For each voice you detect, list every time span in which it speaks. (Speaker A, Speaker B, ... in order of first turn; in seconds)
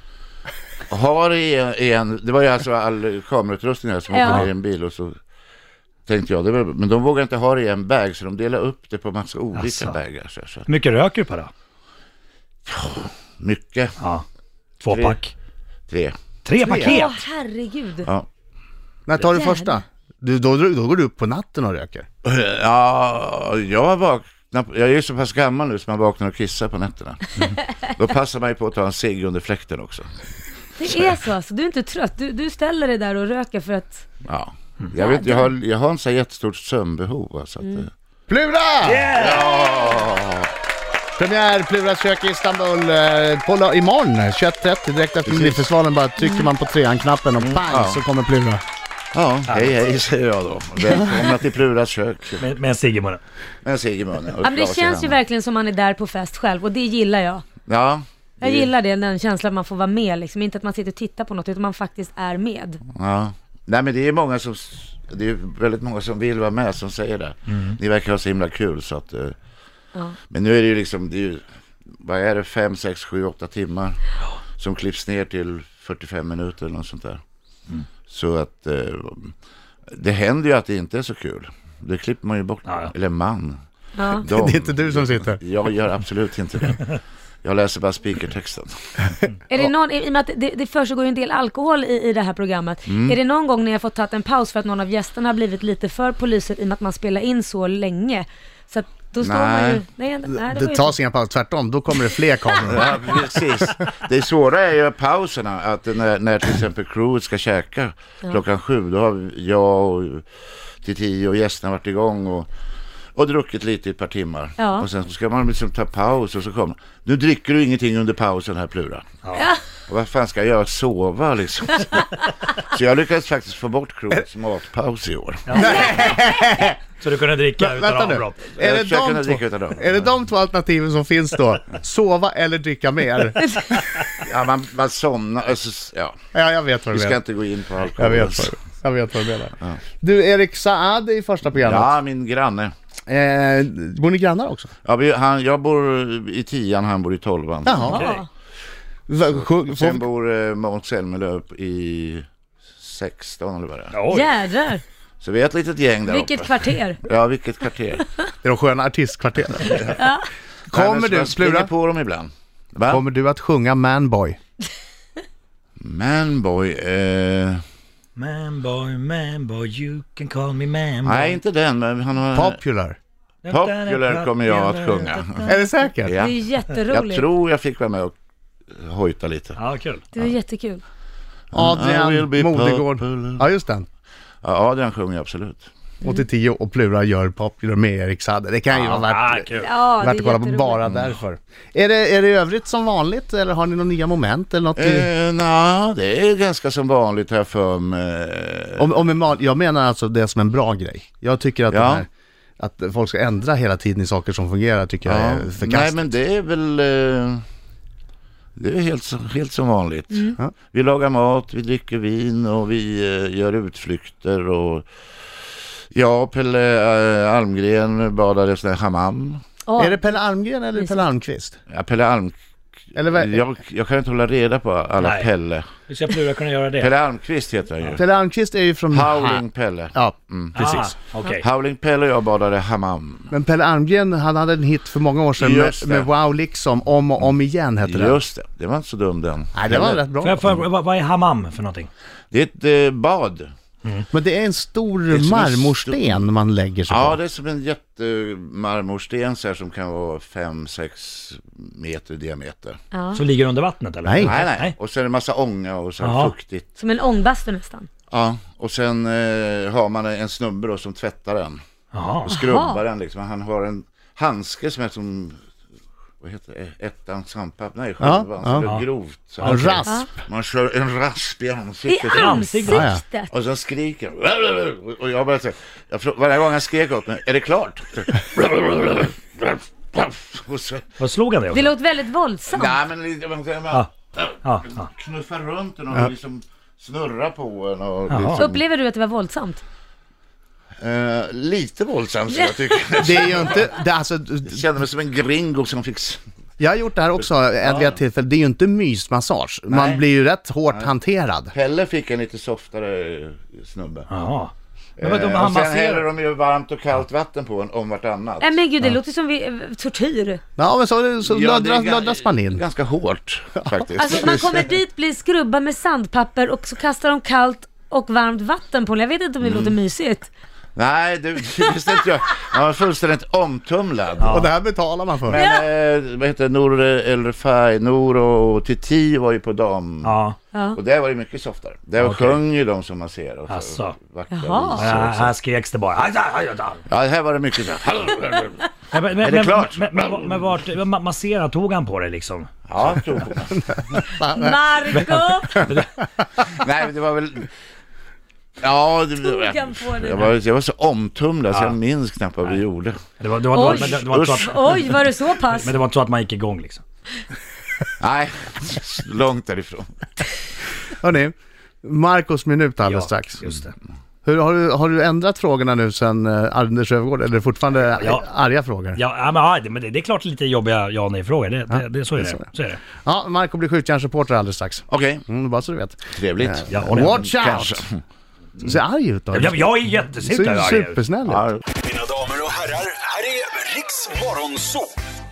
Speaker A: 0.9-5.2, 6.1-10.7, 12.7-14.0, 14.9-15.2, 15.9-16.1, 22.2-30.1, 34.2-37.9, 39.1-40.5, 45.3-45.6, 47.6-48.0, 49.1-52.5, 53.6-55.2, 57.7-58.7, 62.9-69.3, 70.3-71.4, 72.0-74.0, 74.6-77.2, 78.1-79.3, 79.9-88.7, 92.9-93.2, 99.2-99.8, 102.6-110.2, 110.8-112.5, 113.2-119.1, 119.9-125.7, 128.6-130.0, 134.1-136.2, 136.9-138.5, 141.6-142.7, 144.8-148.2, 149.2-152.3, 152.8-154.0, 155.2-158.1, 160.7-163.0, 165.8-167.6, 171.0-172.6, 173.5-175.5, 176.0-178.1, 178.7-179.6, 181.5-183.5, 184.4-185.7, 194.8-198.9, 201.7-202.1, 205.1-207.4, 208.6-214.8, 215.9-219.4, 221.7-222.3, 223.0-225.7, 226.8-228.0, 228.9-233.3, 235.4-236.1, 237.8-240.1, 242.3-243.5, 245.1-246.2, 246.9-252.8, 254.2-256.7, 258.1-261.6, 262.2-265.4, 266.2-280.9, 282.5-288.6, 290.8-293.7, 294.5-296.2, 297.6-298.0, 299.7-300.1, 301.5-304.1, 305.0-308.6, 311.2-314.7, 319.4-319.8, 320.8-324.5, 325.3-330.2, 330.8-335.3, 336.9-340.4, 342.7-344.0, 346.4-347.5, 348.6-353.0, 353.6-354.9, 358.0-359.9, 374.9-375.2, 376.1-378.0, 381.3-381.6
Speaker B: 4.1-4.5, 16.8-18.1, 19.3-19.7, 30.8-34.1, 35.0-35.5, 46.2-46.5, 54.4-57.5, 58.4-62.8, 84.0-84.2, 89.5-100.9, 114.6-114.9, 119.4-119.6, 147.8-148.2, 154.1-154.8, 156.1-157.0, 159.9-160.3, 176.1-177.3, 180.1-180.8, 189.6-190.9, 219.7-220.0, 252.9-253.2, 256.8-257.9, 262.4-262.8, 271.9-273.3, 281.5-282.8, 288.4-289.6, 308.4-310.4, 314.0-320.3, 325.4-325.6, 330.5-330.8, 334.3-334.8, 344.2-345.6, 349.2-350.3, 353.5-355.7
Speaker C: 9.5-10.0, 10.7-11.5, 14.0-14.2, 14.8-15.3, 16.4-17.2, 38.8-39.5, 49.5-49.8, 52.4-53.2, 82.7-82.9, 125.5-126.2, 127.0-128.4, 147.8-148.2, 153.9-154.3, 168.2-171.4, 173.4-175.6, 179.6-180.1, 188.7-189.7, 225.0-225.3, 225.9-226.9, 230.6-231.4, 240.2-241.9, 253.1-254.8, 256.0-256.3, 261.9-262.4, 269.4-269.8, 272.1-272.9, 281.0-281.7, 284.4-284.9, 288.1-288.5, 304.1-306.1, 324.2-324.5, 330.0-330.4, 332.0-332.4, 333.5-334.0, 334.8-336.8, 338.9-342.5, 344.9-345.9, 351.5-351.8, 353.2-354.9, 355.6-356.8, 362.9-363.7, 368.0-368.3, 368.9-372.8, 376.7-377.2, 379.3-381.0
Speaker D: 16.6-17.1, 19.1-22.1, 38.3-39.1, 41.2-48.6, 84.3-85.4, 100.3-103.0, 125.5-126.8, 127.6-133.8, 136.3-137.2, 137.9-141.9, 143.1-144.7, 147.7-148.1, 149.1-150.1, 158.4-160.0, 160.7-161.7, 162.9-164.4, 172.3-173.0, 175.5-176.2, 181.5-183.9, 186.0-195.1, 198.8-206.1, 219.8-221.6, 222.9-223.4, 227.9-230.9, 233.3-238.2, 239.5-240.6, 244.1-247.2, 254.1-254.4, 268.0-268.7, 269.4-270.2, 272.7-273.0, 293.0-294.6, 296.6-301.5, 310.6-312.6, 324.3-325.4, 343.9-344.3, 360.9-363.5, 364.2-369.0, 371.7-372.4, 373.0-377.8, 378.6-381.4
Speaker E: 381.9-384.9